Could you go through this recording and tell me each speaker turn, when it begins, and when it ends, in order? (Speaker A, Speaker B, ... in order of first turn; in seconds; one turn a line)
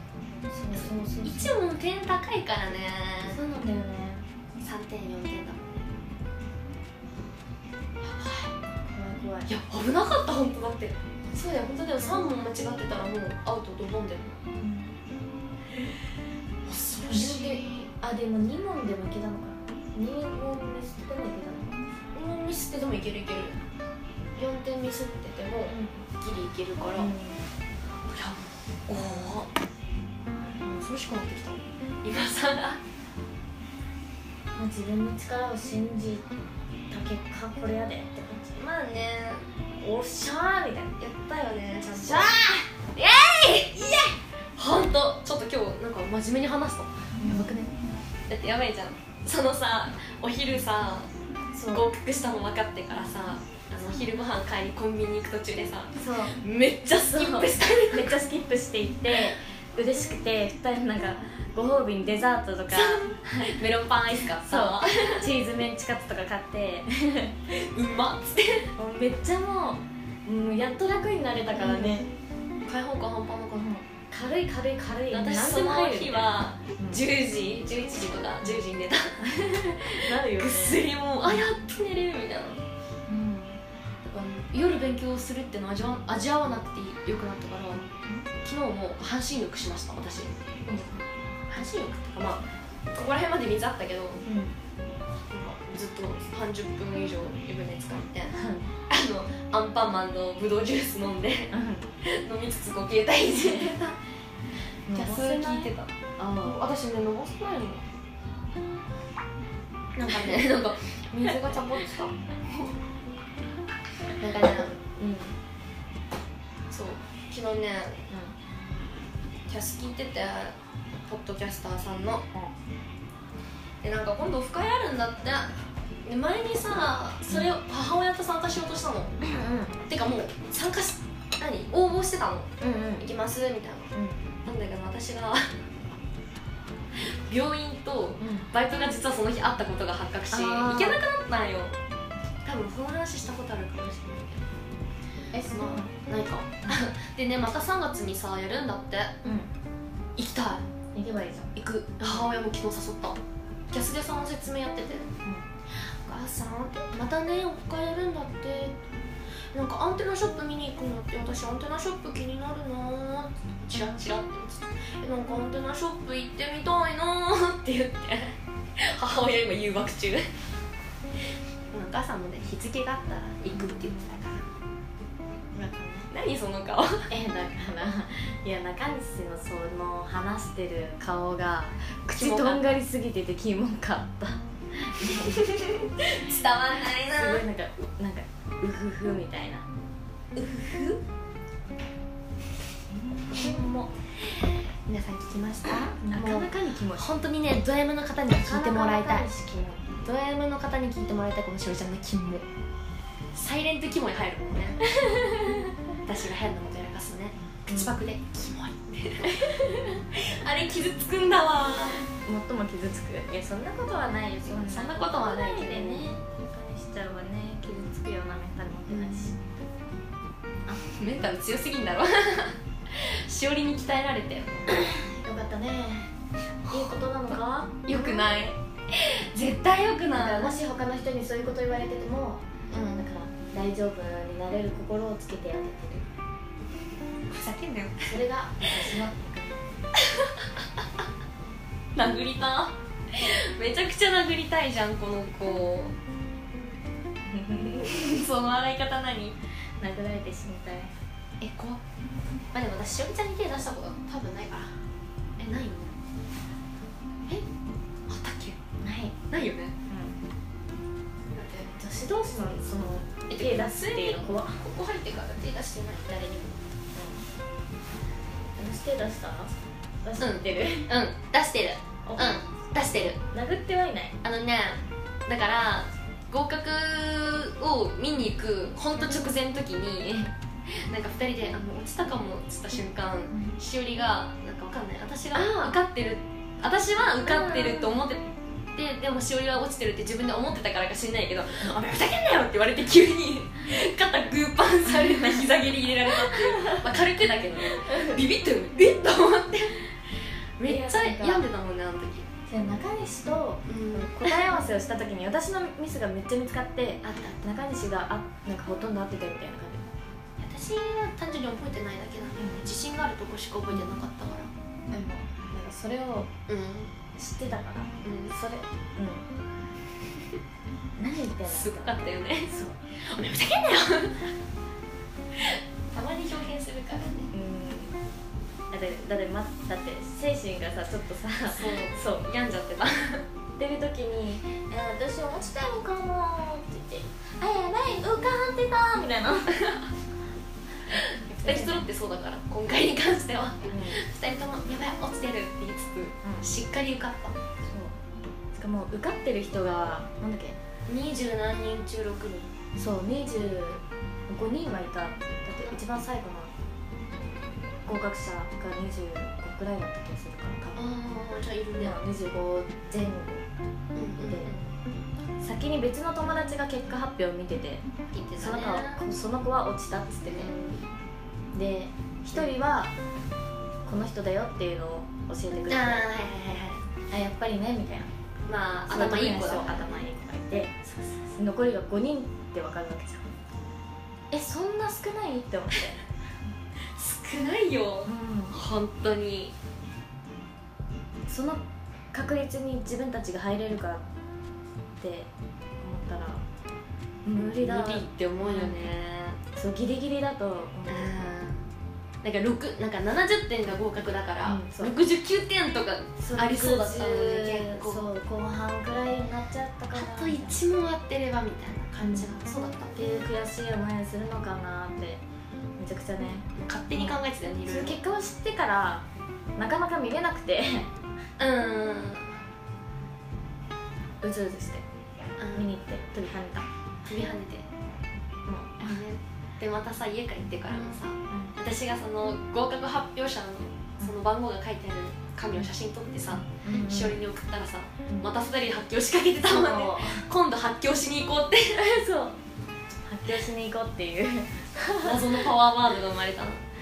Speaker A: 0.3-1.6
Speaker B: 0.7-3.4
Speaker A: 3.3-4.3
Speaker B: 4.6-5.9
Speaker B: 8.0-8.5
Speaker A: 8.9-9.5
Speaker B: 9.5-14.4
Speaker A: 14.6-14.9
Speaker B: 16.6-17.9
Speaker A: 17.0-21.9
Speaker B: 22.1-23.6
Speaker B: 24.4-27.1
Speaker A: 25.7-26.1
Speaker A: 26.9-27.4
Speaker B: 28.1-29.5
Speaker B: 30.6-32.8
Speaker A: 34.6-36.3
Speaker A: 36.9-38.6
Speaker B: 38.6-39.5
Speaker A: 39.8-41.0
Speaker B: 41.0-42.3
Speaker A: 41.9-42.7
Speaker B: 42.9-47.7
Speaker A: 47.2-47.6
Speaker B: 48.3-51.1
Speaker A: 51.5-51.9
Speaker B: 51.7-58.2
Speaker A: 56.0-56.4
Speaker A: 57.1-63.5
Speaker B: 62.7-65.3
Speaker A: 64.2-67.4
Speaker B: 67.5-68.7
Speaker A: 68.8-72.1
Speaker B: 71.5-72.1
Speaker B: 72.6-73.7
Speaker A: 73.5-77.0
Speaker B: 75.1-79.2
Speaker A: 79.2-81.4
Speaker B: 79.8-82.6
Speaker A: 83.1-83.6
Speaker B: 84.0-87.9
Speaker B: 88.4-90.4
Speaker A: 90.7-91.0
Speaker B: 91.5-94.2
Speaker A: 94.2-94.5
Speaker B: 95.3-104.0
Speaker A: 98.3-98.7
Speaker A: 101.5-101.9
Speaker A: 104.9-106.6
Speaker B: 104.9-107.8
Speaker B: 110.0-112.7
Speaker A: 110.0-110.4
Speaker B: 114.2-114.8
Speaker A: 114.9-115.4
Speaker B: 116.7-118.0
Speaker A: 118.1-118.3
Speaker B: 119.5-122.3
Speaker B: 123.8-125.5
Speaker B: 126.0-129.2
Speaker A: 129.2-129.8
Speaker B: 129.9-133.9
Speaker A: 132.6-133.1
Speaker A: 133.9-134.2
Speaker B: 134.4-135.5
Speaker B: 136.9-141.8
Speaker A: 138.2-138.5
Speaker A: 140.3-141.0
Speaker B: 142.4-144.5
Speaker A: 145.3-145.9
Speaker B: 145.5-149.2
Speaker A: 149.2-149.5
Speaker B: 150.2-150.6
Speaker A: 150.9-151.5
Speaker B: 151.6-153.2
Speaker B: 153.7-155.1
Speaker B: 155.9-158.8
Speaker B: 159.5-170.3
Speaker B: 171.7-174.5
Speaker A: 175.5-176.1
Speaker B: 176.1-177.1
Speaker A: 177.1-185.9
Speaker B: 182.1-182.8
Speaker B: 185.0-187.4
Speaker A: 187.1-189.6
Speaker B: 190.3-191.0
Speaker A: 193.1-193.9
Speaker B: 194.2-199.3
Speaker A: 195.7-197.1
Speaker A: 198.4-199.8
Speaker B: 200.0-202.5
Speaker B: 203.3-204.8
Speaker A: 204.8-205.7
Speaker B: 206.1-212.0
Speaker A: 207.7-208.0
Speaker A: 209.3-210.0
Speaker A: 212.2-219.4
Speaker B: 214.5-216.1
Speaker B: 218.9-219.3
Speaker B: 220.8-224.6
Speaker A: 224.8-226.1
Speaker B: 226.6-227.0
Speaker A: 226.7-228.5
Speaker B: 227.9-230.6
Speaker A: 230.1-236.2
Speaker B: 232.7-233.1
Speaker B: 237.3-238.1
Speaker A: 238.1-239.8
Speaker B: 238.6-239.0
Speaker B: 239.9-241.0
Speaker B: 241.9-245.9
Speaker A: 247.3-247.9
Speaker B: 247.8-249.4
Speaker A: 249.8-250.9
Speaker B: 251.4-251.8
Speaker B: 252.5-254.8
Speaker B: 255.4-255.9
Speaker B: 258.1-258.6
Speaker A: 258.8-259.2
Speaker B: 259.3-259.8
Speaker A: 259.9-260.2
Speaker B: 261.3-261.8
Speaker A: 261.8-264.6
Speaker B: 263.3-266.6
Speaker A: 266.9-267.2
Speaker A: 268.6-269.5
Speaker A: 270.0-270.9
Speaker B: 270.2-273.2
Speaker A: 272.1-272.4
Speaker A: 273.2-274.1
Speaker B: 274.2-299.8
Speaker A: 285.3-285.8
Speaker A: 287.2-287.9
Speaker A: 295.0-295.4
Speaker A: 296.2-296.9
Speaker A: 297.7-298.2
Speaker B: 300.6-302.3
Speaker A: 300.6-301.4
Speaker A: 302.5-309.9
Speaker B: 303.6-304.4
Speaker B: 307.0-307.4
Speaker B: 310.4-314.5
Speaker A: 314.9-316.3
Speaker B: 316.5-316.9
Speaker A: 317.2-319.3
Speaker B: 318.0-318.4
Speaker A: 321.0-322.8
Speaker B: 321.5-324.3
Speaker B: 325.3-327.3
Speaker A: 327.3-327.9
Speaker A: 328.7-332.3
Speaker B: 331.5-333.2
Speaker A: 333.6-339.7
Speaker A: 340.9-341.9
Speaker B: 340.9-347.4
Speaker A: 343.7-344.0
Speaker A: 347.6-347.9
Speaker A: 348.6-350.6
Speaker B: 350.9-352.5
Speaker A: 352.8-356.5
Speaker A: 357.9-360.9
Speaker B: 360.8-362.0
Speaker A: 361.8-363.4
Speaker B: 363.9-364.7
Speaker A: 364.2-364.5
Speaker A: 365.4-367.9
Speaker B: 368.1-369.0
Speaker A: 368.4-370.5
Speaker B: 370.3-370.8
Speaker A: 371.5-372.9
Speaker A: 373.9-376.1
Speaker B: 375.7-376.8
Speaker A: 377.1-378.1
Speaker B: 378.5-379.9
Speaker A: 378.9-383.2
Speaker A: 384.3-386.0
Speaker B: 386.9-389.5
Speaker A: 388.1-388.6
Speaker A: 391.3-394.0
Speaker A: 395.0-395.3
Speaker A: 395.8-396.4
Speaker A: 397.2-398.9
Speaker B: 397.3-399.4
Speaker A: 399.6-401.3
Speaker B: 400.9-401.7
Speaker B: 402.2-408.1
Speaker A: 404.4-404.9
Speaker A: 406.2-410.6
Speaker B: 409.9-413.2
Speaker A: 412.0-412.3
Speaker A: 412.9-415.2
Speaker A: 415.8-419.1
Speaker B: 416.5-418.0
Speaker A: 419.6-420.9
Speaker B: 421.4-422.4
Speaker A: 424.2-424.8
Speaker B: 425.4-425.7
Speaker A: 425.5-426.7
Speaker B: 427.1-427.6
Speaker A: 428.4-429.0
Speaker B: 428.8-442.0
Speaker A: 430.8-431.5
Speaker A: 436.4-437.2
Speaker A: 439.5-440.3
Speaker A: 441.8-442.4
Speaker A: 443.1-445.4
Speaker B: 445.0-446.6